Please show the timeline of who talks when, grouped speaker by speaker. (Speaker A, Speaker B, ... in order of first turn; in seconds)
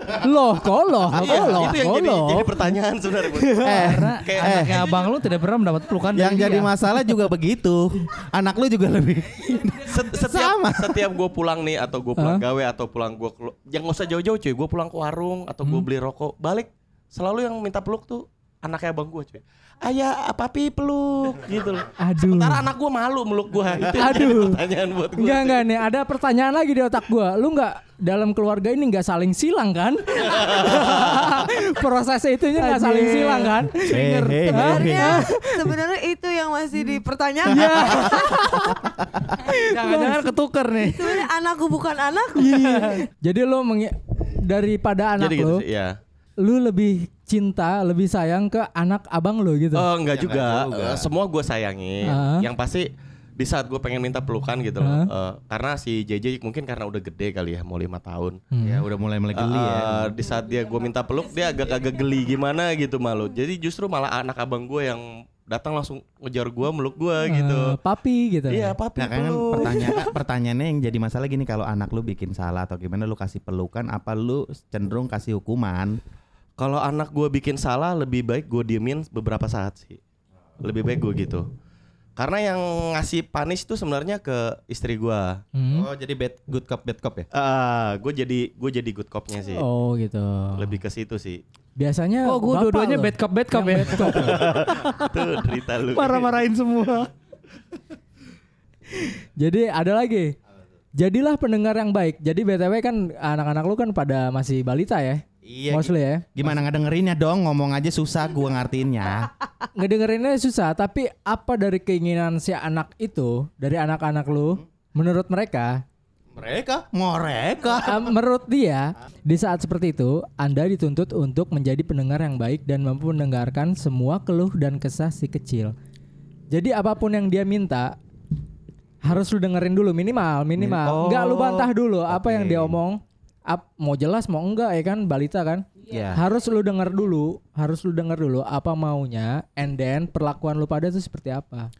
Speaker A: 0.2-2.5, 3.3-3.9, 12.2-12.4, 22.0-22.6, 23.9-24.6, 25.2-34.0, 34.6-35.7, 37.5-38.8, 39.4-40.3, 42.4-45.6, 46.4-49.9, 52.0-52.5, 54.8-55.1, 58.5-58.8, 67.2-68.8, 85.5-85.9, 89.5-90.8, 91.8-94.5, 98.9-100.3, 101.0-106.3, 109.8-115.8, 117.8-125.7, 126.5-127.9, 129.0-141.7
Speaker B: 1.1-1.7, 3.6-4.9, 6.1-11.1, 33.9-35.2, 50.0-51.1, 58.6-60.1, 69.0-76.0, 85.7-87.3, 105.4-109.3, 116.3-118.1, 130.6-132.8, 135.9-136.2
Speaker C: 1.1-5.1, 9.8-25.6, 30.3-30.8, 45.2-46.0, 49.7-58.4, 59.3-67.7, 68.5-70.1, 76.6-80.0, 80.6-81.5, 82.2-85.4, 87.3-89.6, 90.5-91.4, 94.2-96.4
Speaker D: 3.7-6.7, 32.5-34.9, 37.6-38.0, 39.5-41.2, 42.7-43.0, 92.2-95.2, 95.9-97.1
Speaker E: 34.5-38.7, 40.8-42.8